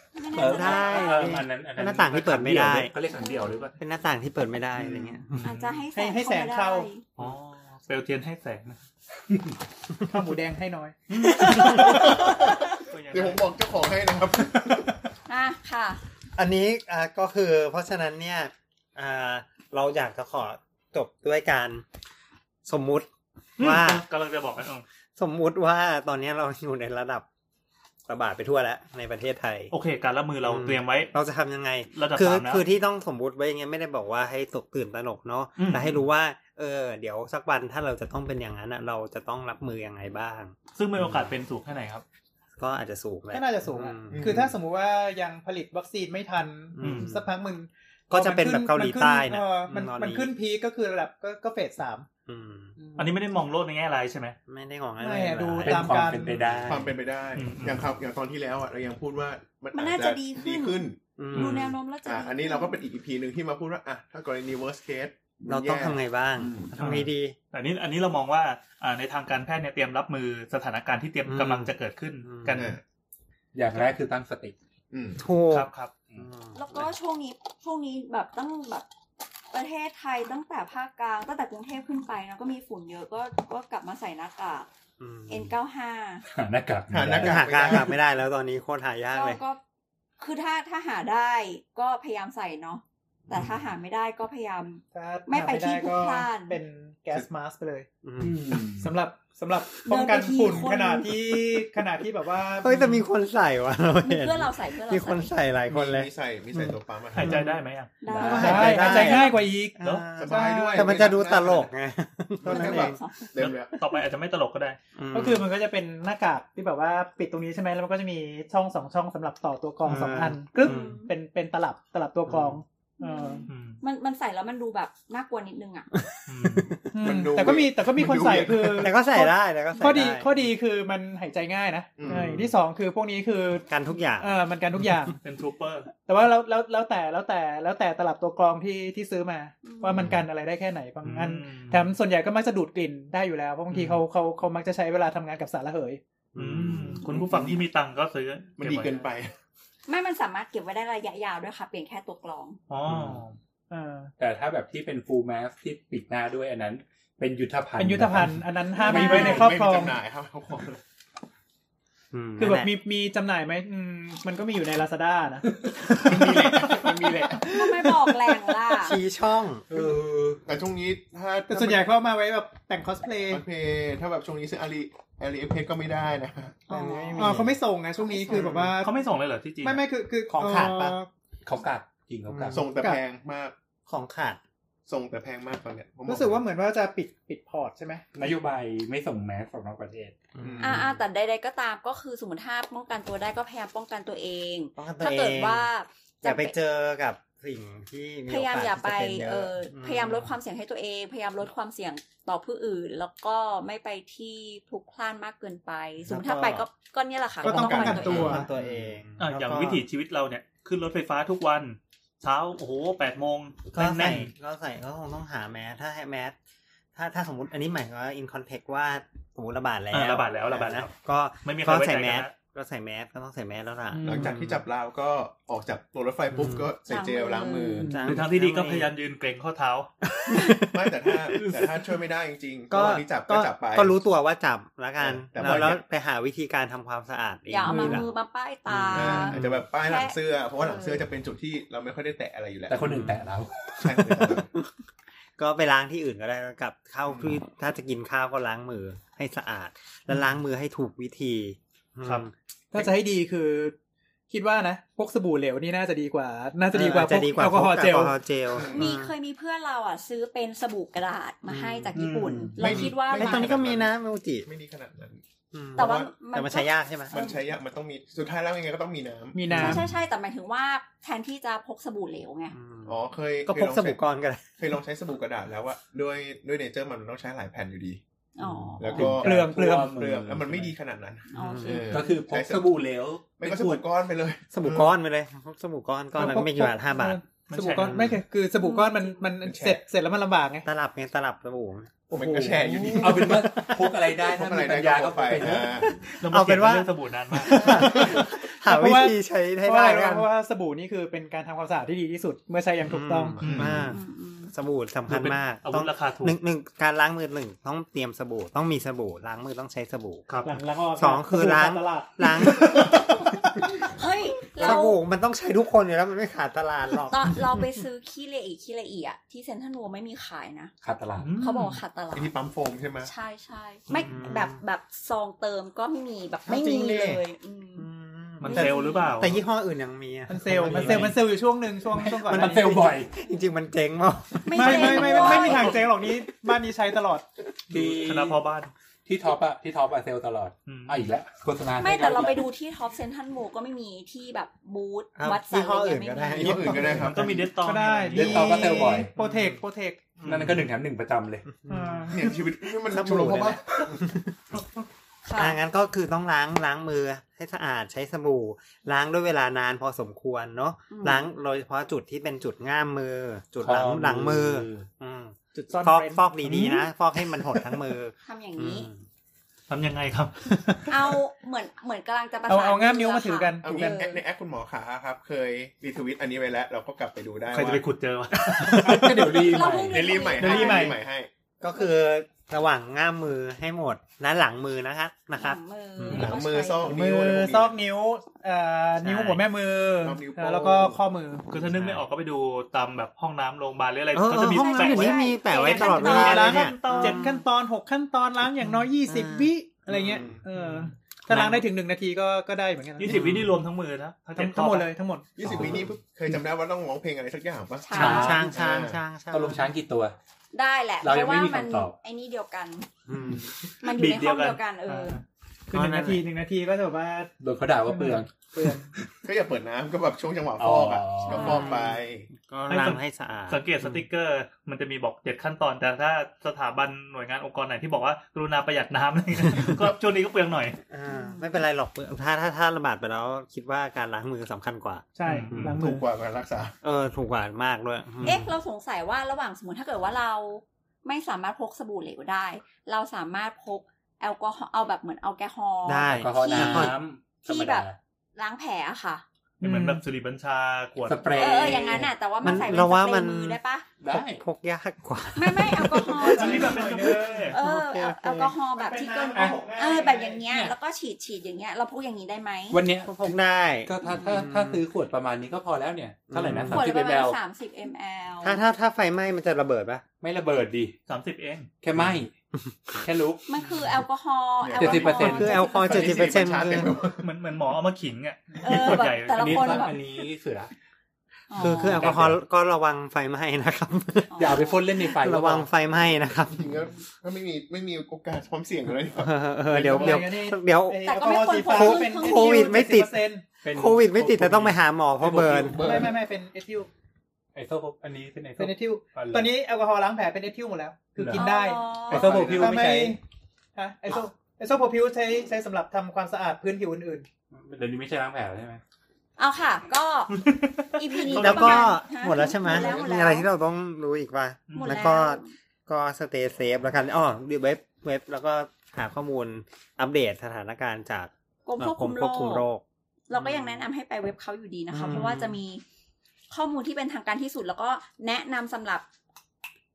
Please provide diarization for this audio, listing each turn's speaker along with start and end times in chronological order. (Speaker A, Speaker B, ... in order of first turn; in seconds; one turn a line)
Speaker A: 0.1-1.4
Speaker B: 0.3-3.8
Speaker C: 0.4-2.9
Speaker A: 3.1-3.7
Speaker C: 3.8-5.5
Speaker D: 4.8-5.2
Speaker E: 5.4-5.8
Speaker A: 5.4-7.0
Speaker F: 5.9-6.9
Speaker E: 7.2-8.8
Speaker B: 9.3-9.6
Speaker F: 10.0-11.0
Speaker E: 11.1-13.5
Speaker C: 11.5-11.8
Speaker A: 11.5-12.0
Speaker D: 11.7-15.0
Speaker A: 15.3-16.0
Speaker C: 16.4-21.9
Speaker C: 22.6-24.1
Speaker E: 23.6-24.9
Speaker C: 25.2-27.3
Speaker C: 28.1-29.7
Speaker E: 29.7-31.1
Speaker C: 30.4-40.6
Speaker E: 31.9-32.7
Speaker E: 35.6-36.0
Speaker E: 40.8-42.0
Speaker C: 42.6-44.3
Speaker F: 43.3-52.1
Speaker D: 44.1-44.5
Speaker C: 46.8-47.3
Speaker E: 46.8-47.1
Speaker C: 48.1-50.3
Speaker C: 52.3-52.8
Speaker F: 52.8-53.2
Speaker E: 53.0-54.4
Speaker C: 54.5-56.9
Speaker F: 55.0-56.5
Speaker B: 55.6-56.9
Speaker D: 56.6-66.7
Speaker E: 57.4-57.9
Speaker A: 59.7-62.8
Speaker C: 61.2-61.7
Speaker C: 65.5-67.4
Speaker E: 66.8-72.8
Speaker C: 71.3-71.7
Speaker C: 72.2-72.7
Speaker D: 72.5-72.8
Speaker B: 73.5-74.5
Speaker D: 74.9-75.2
Speaker C: 75.2-76.8
Speaker E: 75.5-75.9
Speaker A: 76.5-78.9
Speaker A: 79.5-84.7
Speaker C: 85.0-85.5
Speaker A: 85.3-86.2
Speaker B: 86.3-87.8
Speaker D: 86.9-88.0
Speaker C: 87.2-89.4
Speaker A: 89.1-89.6
Speaker A: 90.2-96.6
Speaker F: 94.9-97.9
Speaker C: 98.0-98.4
Speaker B: 98.2-98.9
Speaker F: 98.8-103.0
Speaker A: 99.8-101.1
Speaker C: 102.6-106.7
Speaker A: 104.0-105.3
Speaker D: 105.7-107.4
Speaker E: 107.2-107.9
Speaker F: 107.2-107.5
Speaker A: 108.0-109.1
Speaker C: 108.1-113.0
Speaker D: 108.1-108.8
Speaker F: 108.3-111.0
Speaker E: 109.8-110.1
Speaker D: 110.2-111.7
Speaker D: 112.4-113.7
Speaker A: 112.5-113.2
Speaker E: 113.4-114.8
Speaker C: 115.0-115.5
Speaker F: 115.1-123.5
Speaker C: 119.8-121.0
Speaker A: 120.6-121.1
Speaker C: 122.3-122.6
Speaker A: 123.0-125.9
Speaker E: 123.5-123.8
Speaker C: 126.0-126.8
Speaker E: 126.3-126.8
Speaker F: 126.9-135.2
Speaker D: 127.0-128.9
Speaker C: 128.8-130.3
Speaker D: 132.0-132.4
Speaker C: 132.1-132.5
Speaker C: 133.7-134.4
Speaker E: 135.2-135.9
Speaker F: 135.9-146.0
Speaker A: 139.6-140.0
Speaker E: 141.0-141.9
Speaker C: 146.3-147.1
Speaker E: 146.4-149.1
Speaker D: 147.1-147.6
Speaker D: 148.6-149.3
Speaker A: 149.9-152.6
Speaker E: 152.7-153.4
Speaker C: 152.9-153.2
Speaker F: 153.7-154.1
Speaker B: 154.2-159.5
Speaker F: 157.8-160.0
Speaker A: 158.8-159.4
Speaker D: 158.9-160.8
Speaker C: 162.1-162.7
Speaker F: 162.4-168.8
Speaker D: 165.9-167.5
Speaker A: 167.5-169.0
Speaker C: 168.8-169.7
Speaker B: 169.7-170.4
Speaker D: 170.5-171.9
Speaker F: 171.5-173.4
Speaker D: 173.3-176.7
Speaker A: 176.7-177.4
Speaker F: 176.7-179.0
Speaker C: 176.8-177.6
Speaker C: 178.3-178.8
Speaker E: 178.8-179.9
Speaker F: 179.6-181.1
Speaker C: 180.3-181.0
Speaker B: 181.4-182.7
Speaker C: 182.3-182.7
Speaker D: 182.5-183.6
Speaker C: 183.9-184.4
Speaker D: 184.9-186.4
Speaker F: 186.1-188.1
Speaker B: 188.2-190.3
Speaker C: 190.4-191.0
Speaker D: 190.4-190.9
Speaker A: 190.6-196.6
Speaker C: 194.8-195.7
Speaker C: 196.2-200.3
Speaker A: 198.3-208.4
Speaker C: 206.1-206.7
Speaker F: 207.4-208.5
Speaker D: 207.4-208.8
Speaker C: 207.8-209.8
Speaker E: 209.2-214.3
Speaker C: 213.7-216.4
Speaker C: 216.9-224.6
Speaker E: 219.9-220.9
Speaker E: 221.4-222.3
Speaker F: 223.9-224.3
Speaker D: 224.1-227.9
Speaker C: 226.3-226.7
Speaker A: 226.9-227.8
Speaker F: 227.8-228.2
Speaker C: 227.9-228.9
Speaker E: 228.1-229.9
Speaker C: 230.0-231.4
Speaker D: 230.7-234.0
Speaker C: 232.7-238.1
Speaker D: 235.0-235.8
Speaker A: 237.5-241.1
Speaker F: 237.7-238.1
Speaker C: 238.7-239.6
Speaker D: 238.9-242.9
Speaker B: 242.7-244.4
Speaker C: 242.8-243.3
Speaker D: 243.8-244.5
Speaker C: 245.4-252.3
Speaker D: 247.1-247.3
Speaker F: 252.7-253.8
Speaker F: 254.3-258.2
Speaker C: 256.7-259.1
Speaker D: 258.5-258.9
Speaker A: 258.7-263.5
Speaker C: 261.5-262.0
Speaker B: 261.9-262.9
Speaker D: 262.6-265.2
Speaker C: 262.8-264.5
Speaker C: 265.5-267.2
Speaker D: 265.7-266.1
Speaker A: 265.8-267.4
Speaker D: 267.1-269.9
Speaker F: 269.3-269.9
Speaker A: 269.5-272.6
Speaker C: 272.5-274.6
Speaker D: 272.9-274.0
Speaker D: 274.6-278.0
Speaker A: 278.4-279.1
Speaker C: 278.4-279.0
Speaker D: 278.8-282.8
Speaker B: 278.9-280.7
Speaker F: 279.2-280.0
Speaker A: 281.3-281.9
Speaker C: 281.4-282.0
Speaker B: 281.9-283.9
Speaker D: 283.4-284.9
Speaker C: 284.5-287.2
Speaker F: 286.1-290.7
Speaker E: 287.5-288.1
Speaker C: 287.8-288.2
Speaker A: 288.6-289.2
Speaker D: 289.4-289.8
Speaker C: 290.6-292.0
Speaker D: 292.1-296.0
Speaker F: 292.1-293.5
Speaker B: 293.0-295.8
Speaker C: 295.6-300.3
Speaker E: 296.2-298.1
Speaker F: 297.5-303.5
Speaker C: 302.9-304.0
Speaker E: 303.4-303.9
Speaker D: 303.4-303.9
Speaker A: 303.9-304.5
Speaker C: 304.5-310.3
Speaker E: 305.1-306.4
Speaker E: 310.3-310.6
Speaker F: 310.4-312.9
Speaker C: 311.0-313.1
Speaker A: 313.7-315.0
Speaker C: 314.6-317.6
Speaker A: 317.1-320.7
Speaker B: 320.8-321.3
Speaker E: 321.2-321.8
Speaker A: 321.4-322.3
Speaker D: 322.1-323.1
Speaker A: 323.0-327.9
Speaker C: 324.1-324.6
Speaker F: 326.5-327.2
Speaker C: 327.8-331.2
Speaker E: 328.4-329.4
Speaker A: 328.4-329.2
Speaker F: 330.3-332.9
Speaker B: 330.5-331.2
Speaker B: 331.9-333.1
Speaker C: 332.3-335.8
Speaker A: 334.4-335.8
Speaker F: 334.5-337.3
Speaker B: 337.7-338.4
Speaker E: 337.7-338.7
Speaker B: 339.1-342.4
Speaker E: 340.7-341.0
Speaker A: 341.8-346.8
Speaker C: 345.2-347.3
Speaker D: 346.3-347.5
Speaker E: 346.8-349.6
Speaker F: 347.6-350.3
Speaker B: 348.1-349.1
Speaker E: 350.2-350.7
Speaker B: 350.2-351.5
Speaker C: 351.7-352.2
Speaker F: 351.7-352.3
Speaker D: 352.1-354.0
Speaker C: 352.9-354.6
Speaker A: 355.2-355.6
Speaker C: 355.4-369.0
Speaker A: 360.9-361.3
Speaker B: 363.6-364.9
Speaker F: 365.5-367.8
Speaker A: 368.2-368.9
Speaker E: 369.7-370.9
Speaker A: 370.9-374.2
Speaker F: 372.5-374.1
Speaker D: 373.6-377.8
Speaker E: 377.5-379.1
Speaker F: 378.5-379.6
Speaker B: 378.6-380.1
Speaker A: 379.4-380.9
Speaker D: 379.8-381.3
Speaker F: 380.4-381.0
Speaker E: 380.6-380.9
Speaker C: 381.6-386.4
Speaker A: 385.4-387.0
Speaker B: 386.1-386.4
Speaker D: 386.1-387.8
Speaker F: 386.8-391.5
Speaker C: 389.0-389.4
Speaker D: 390.0-391.0
Speaker E: 391.5-397.3
Speaker C: 391.6-392.1
Speaker C: 394.1-397.4
Speaker A: 394.4-396.4
Speaker F: 395.8-403.3
Speaker C: 399.1-399.5
Speaker D: 399.9-400.4
Speaker C: 401.3-401.6
Speaker E: 403.0-404.9
Speaker C: 403.1-403.5
Speaker F: 404.4-405.4
Speaker D: 405.4-409.0
Speaker B: 405.4-405.9
Speaker A: 407.8-408.4
Speaker B: 407.9-408.6
Speaker C: 408.0-409.7
Speaker B: 409.3-410.1
Speaker A: 410.5-412.9
Speaker B: 411.0-411.9
Speaker C: 413.1-413.5
Speaker A: 413.8-415.2
Speaker B: 413.9-414.5
Speaker E: 414.1-415.2
Speaker F: 415.7-417.3
Speaker C: 415.7-416.2
Speaker B: 417.4-419.1
Speaker F: 417.8-418.9
Speaker D: 419.2-422.3
Speaker B: 420.6-421.7
Speaker A: 421.2-421.9
Speaker C: 421.4-423.9
Speaker E: 422.7-430.8
Speaker C: 429.5-429.8
Speaker C: 430.9-435.8
Speaker A: 431.1-431.5
Speaker F: 435.2-436.1
Speaker E: 435.3-435.6
Speaker D: 435.6-436.7
Speaker C: 436.8-438.5
Speaker A: 438.2-449.2
Speaker C: 445.9-447.0
Speaker B: 446.1-448.0
Speaker E: 449.6-451.8
Speaker B: 451.1-452.7
Speaker A: 451.3-453.9
Speaker C: 452.4-456.3
Speaker B: 454.0-454.4
Speaker A: 455.4-456.9
Speaker F: 456.2-460.7
Speaker E: 456.3-457.6
Speaker A: 457.5-462.8
Speaker C: 457.6-458.5
Speaker B: 462.7-467.4
Speaker C: 463.1-464.8
Speaker C: 466.3-466.8
Speaker A: 466.7-468.6
Speaker C: 468.4-470.0
Speaker B: 470.2-470.9
Speaker E: 471.1-471.7
Speaker B: 471.8-472.3
Speaker B: 473.0-473.5
Speaker A: 473.5-475.8
Speaker D: 474.6-477.3
Speaker B: 474.8-476.6
Speaker C: 475.2-477.0
Speaker E: 477.2-479.9
Speaker A: 478.6-480.2
Speaker B: 478.8-480.7
Speaker A: 481.5-482.1
Speaker B: 481.5-482.4
Speaker C: 481.6-486.7
Speaker A: 484.3-484.8
Speaker B: 484.4-485.7
Speaker D: 486.5-490.3
Speaker C: 489.2-495.9
Speaker F: 489.9-493.5
Speaker A: 491.1-492.8
Speaker B: 493.6-496.2
Speaker F: 495.7-496.9
Speaker B: 497.6-499.5
Speaker F: 498.6-503.2
Speaker B: 501.2-503.2
Speaker A: 501.3-502.4
Speaker D: 502.2-502.8
Speaker F: 503.8-507.3
Speaker B: 507.5-508.8
Speaker A: 509.4-510.4
Speaker A: 510.9-513.5
Speaker E: 511.3-511.9
Speaker C: 511.3-523.9
Speaker E: 514.7-515.1
Speaker A: 514.8-515.5
Speaker A: 521.7-522.7
Speaker A: 523.3-525.8
Speaker C: 524.9-525.6
Speaker A: 526.5-529.0